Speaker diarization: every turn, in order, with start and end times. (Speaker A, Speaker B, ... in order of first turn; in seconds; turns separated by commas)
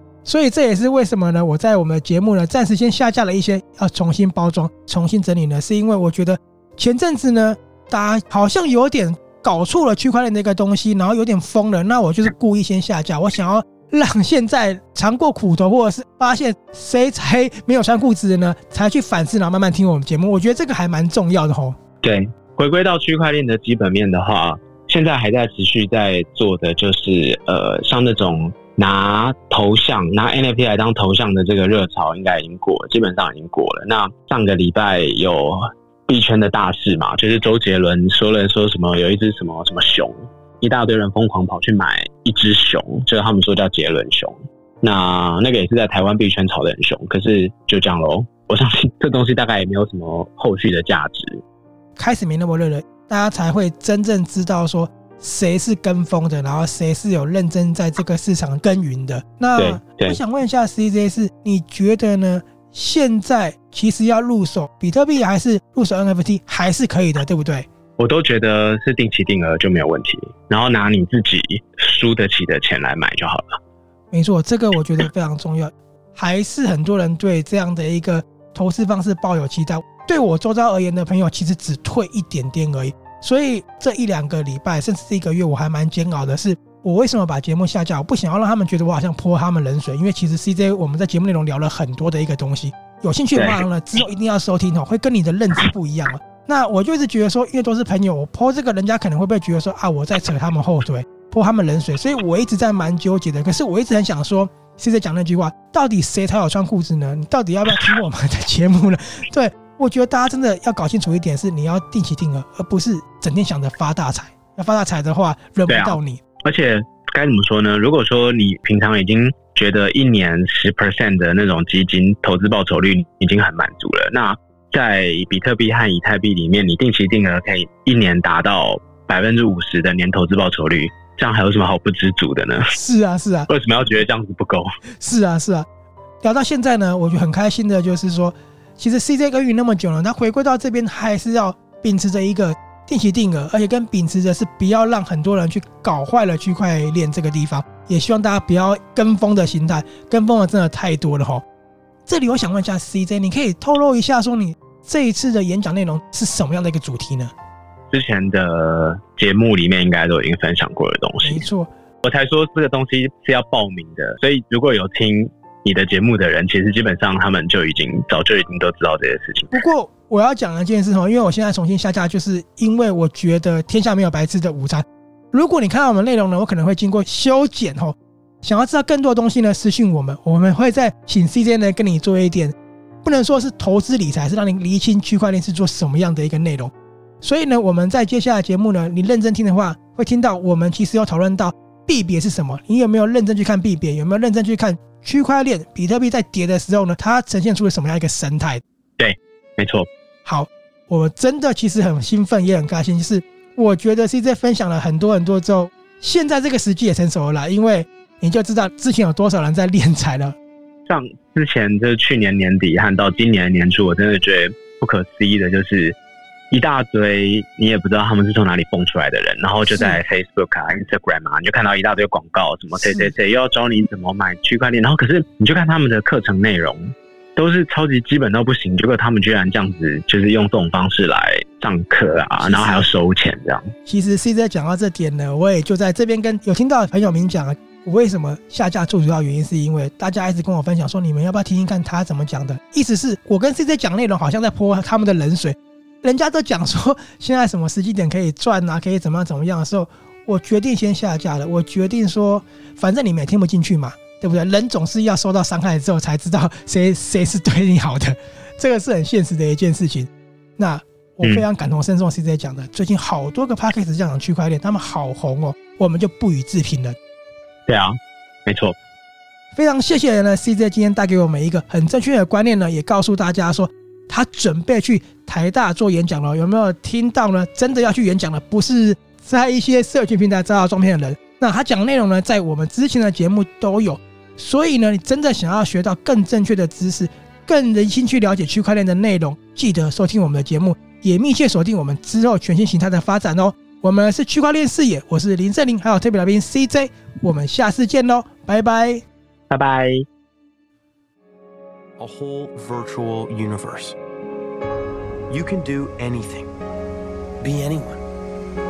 Speaker A: 0.2-21.8, Speaker B: 22.0-51.4, Speaker A: 52.0-67.7, Speaker B: 59.6-60.2, Speaker B: 68.0-73.6, Speaker A: 74.1-116.2, Speaker B: 93.3-93.7, Speaker B: 115.7-132.7, Speaker A: 132.7-133.5, Speaker B: 133.5-134.7, Speaker A: 135.0-135.7, Speaker A: 136.2-151.4, Speaker A: 152.1-157.3, Speaker B: 157.9-161.5, Speaker A: 161.2-161.7, Speaker B: 162.0-169.6, Speaker A: 169.5-198.6, Speaker B: 199.0-199.9, Speaker A: 200.2-210.4, Speaker B: 210.9-216.0, Speaker B: 216.5-233.7, Speaker A: 219.7-220.0, Speaker A: 222.8-223.1, Speaker A: 232.4-232.9, Speaker A: 233.9-267.0, Speaker B: 267.7-268.8, Speaker A: 269.6-299.0, Speaker B: 299.5-300.1, Speaker C: 302.0-304.0, Speaker C: 305.3-306.5, Speaker C: 307.4-308.0